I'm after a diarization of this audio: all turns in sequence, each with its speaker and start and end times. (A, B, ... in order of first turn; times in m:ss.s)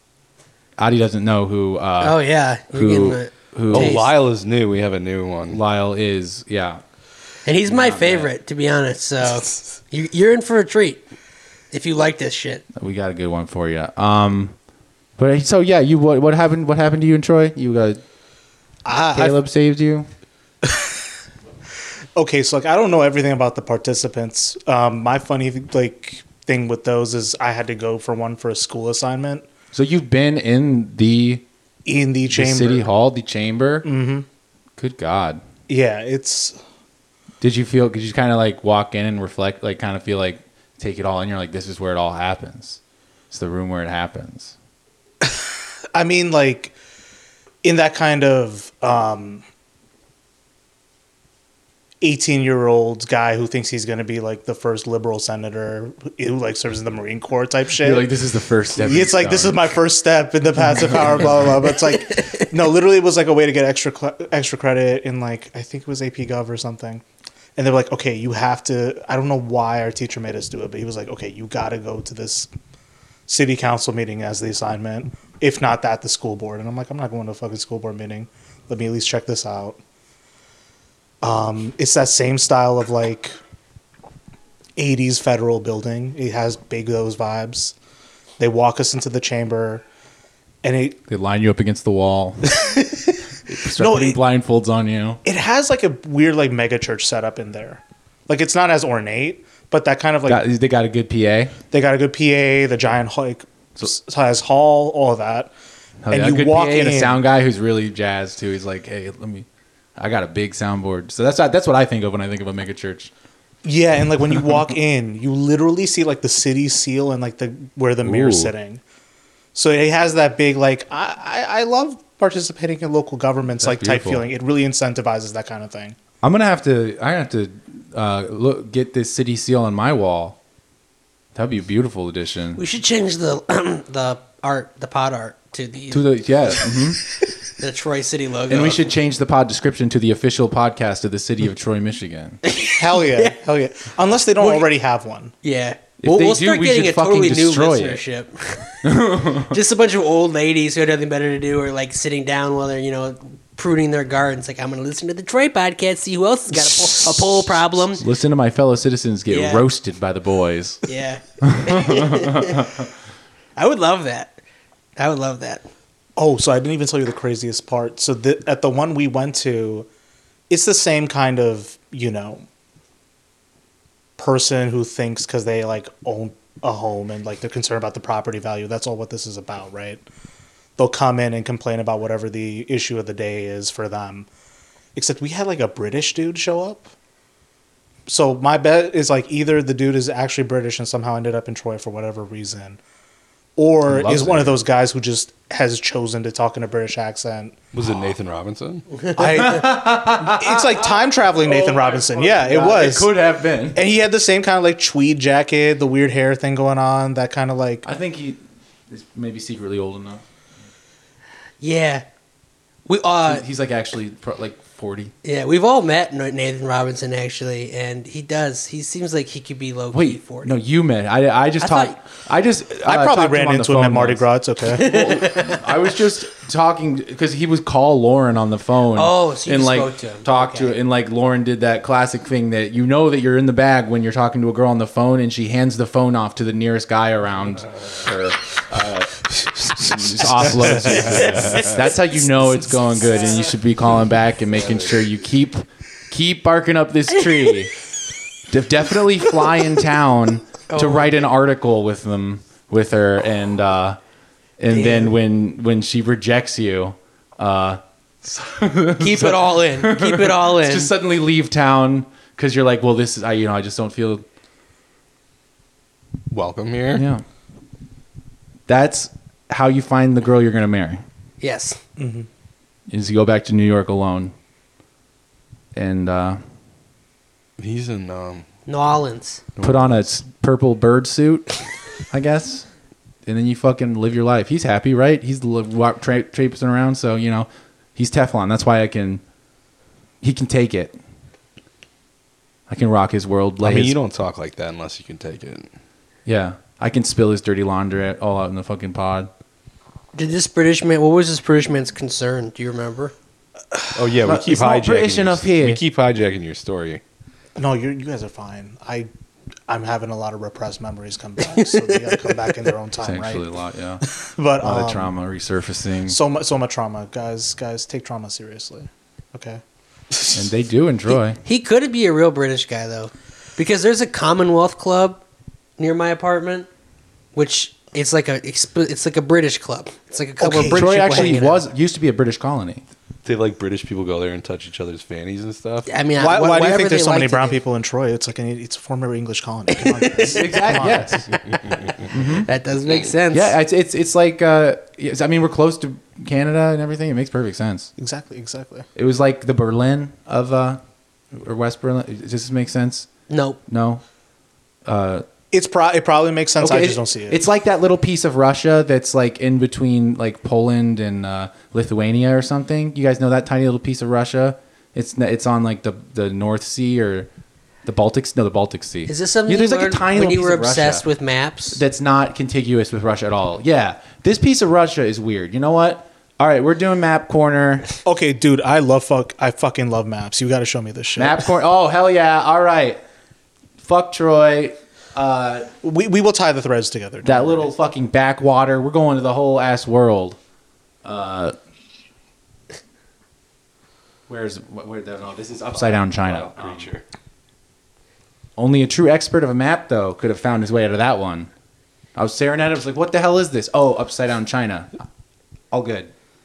0:00.8-0:04.0 A
0:02.0-0:04.0 B
0:03.7-0:05.6 C
0:05.5-0:06.8 A
0:07.4-0:11.0 B
0:07.6-0:08.3 A
0:11.7-0:12.6 B
0:12.7-0:14.6 A
0:15.2-0:18.0 A
0:18.8-0:19.4 D
0:19.1-0:20.1 A
0:22.2-0:29.5 D
0:29.7-0:31.4 A
0:31.8-0:32.9 D
0:32.3-0:33.9 A
0:33.8-0:34.3 D
0:34.8-0:35.4 A
0:35.7-0:36.6 D
0:37.4-0:42.8 A
0:43.3-0:44.6 A
0:45.9-0:46.7 D
0:47.6-0:49.4 D
0:52.0-0:58.1 D
0:57.8-0:59.8 A
0:58.8-1:07.0 D
1:00.6-1:01.6 A
1:07.6-1:12.5 D
1:13.3-1:19.8 D
1:21.2-1:23.4 D
1:24.8-1:27.8 D
1:28.4-1:29.8 D
1:30.6-1:31.0 D
1:31.1-1:32.8 A
1:32.6-1:32.9 D
1:33.4-1:35.2 A
1:33.8-1:34.2 D
1:35.2-1:40.4 D
1:40.2-1:41.6 A
1:41.7-1:45.5 D
1:46.0-1:49.4 A
1:46.1-1:47.2 D
1:50.0-1:53.1 A
1:53.6-1:58.8 D
1:58.0-1:58.5 A
1:59.6-2:06.0 D
2:03.6-2:04.3 A
2:06.2-2:10.4 A
2:11.4-2:12.6 A
2:12.6-2:16.9 B
2:15.9-2:17.0 A
2:17.4-2:18.8 B
2:18.5-2:22.4 A
2:22.4-2:23.4 B
2:22.8-2:25.3 D
2:24.4-2:24.7 B
2:25.4-2:38.0 B
2:26.0-2:28.0 A
2:28.8-2:29.6 A
2:38.0-2:40.8 A
2:39.3-2:39.7 B
2:40.9-2:42.7 B
2:41.4-2:42.8 A
2:43.6-2:44.4 B
2:45.0-2:45.7 B
2:46.2-2:49.9 D
2:50.5-2:52.4 D
2:54.2-3:00.0 D
3:00.8-3:04.3 D
3:04.9-3:06.9 D
3:08.1-3:12.8 D
3:13.6-3:17.6 D
3:13.8-3:14.6 A
3:17.7-3:18.9 C
3:19.2-3:23.1 D
3:19.2-3:23.8 A
3:23.7-3:27.9 D
3:27.8-3:30.2 A
3:31.6-3:32.0 B
3:32.9-3:33.4 B
3:33.2-3:35.1 A
3:35.2-3:40.5 B
3:39.9-3:59.2 A
3:41.6-3:42.0 B
3:42.8-3:44.9 D
3:44.8-3:45.6 B
3:48.9-3:50.8 B
3:59.3-4:01.8 C
3:59.8-4:07.8 A
4:08.5-4:14.0 A
4:10.7-4:11.1 B
4:14.6-4:24.2 A
4:14.7-4:15.1 B
4:19.0-4:20.9 B
4:26.3-4:27.0 C
4:26.9-4:27.2 A
4:28.7-4:31.0 A
4:31.4-4:31.8 B
4:32.0-4:32.3 D
4:32.9-4:34.3 A
4:35.7-4:36.4 A
4:37.6-4:38.5 C
4:38.7-4:39.4 B
4:39.6-4:39.9 C
4:39.6-4:41.5 A
4:42.1-4:42.7 A
4:43.2-4:49.2 A
4:50.2-4:51.0 A
4:52.7-4:54.0 A
4:53.6-4:55.7 C
4:56.2-4:59.3 A
5:00.1-5:03.1 B
5:04.0-5:07.0 C
5:04.2-5:05.8 A
5:07.6-5:09.1 D
5:09.7-5:13.4 D
5:11.6-5:12.0 B
5:13.0-5:14.0 A
5:14.3-5:15.1 D
5:14.6-5:16.2 A
5:16.1-5:19.6 D
5:20.3-5:21.4 A
5:21.4-5:25.2 B
5:25.8-5:26.7 B
5:27.3-5:31.6 B
5:30.4-5:31.4 D
5:30.7-5:32.8 A
5:33.2-5:35.9 C
5:35.9-5:37.6 B
5:36.2-5:41.3 D
5:39.8-5:40.7 B
5:40.3-5:41.2 A
5:41.3-5:43.6 B
5:42.1-5:42.5 A
5:43.3-5:47.9 A
5:48.0-5:48.9 D
5:49.0-5:50.8 A
5:51.3-5:53.1 A
5:53.3-5:53.6 B
5:53.7-5:54.0 A
5:54.9-5:55.2 A
5:55.5-5:57.4 D
5:56.6-6:07.3 A
6:07.8-6:11.0 A
6:09.1-6:11.8 B
6:11.7-6:17.9 A
6:18.0-6:21.5 D
6:21.1-6:23.0 A
6:23.8-6:25.7 A
6:25.8-6:27.7 D
6:27.2-6:30.4 A
6:31.0-6:31.5 A
6:34.3-6:36.9 A
6:35.7-6:37.0 C
6:38.6-6:41.5 A
6:42.1-6:44.9 A
6:45.7-6:46.1 A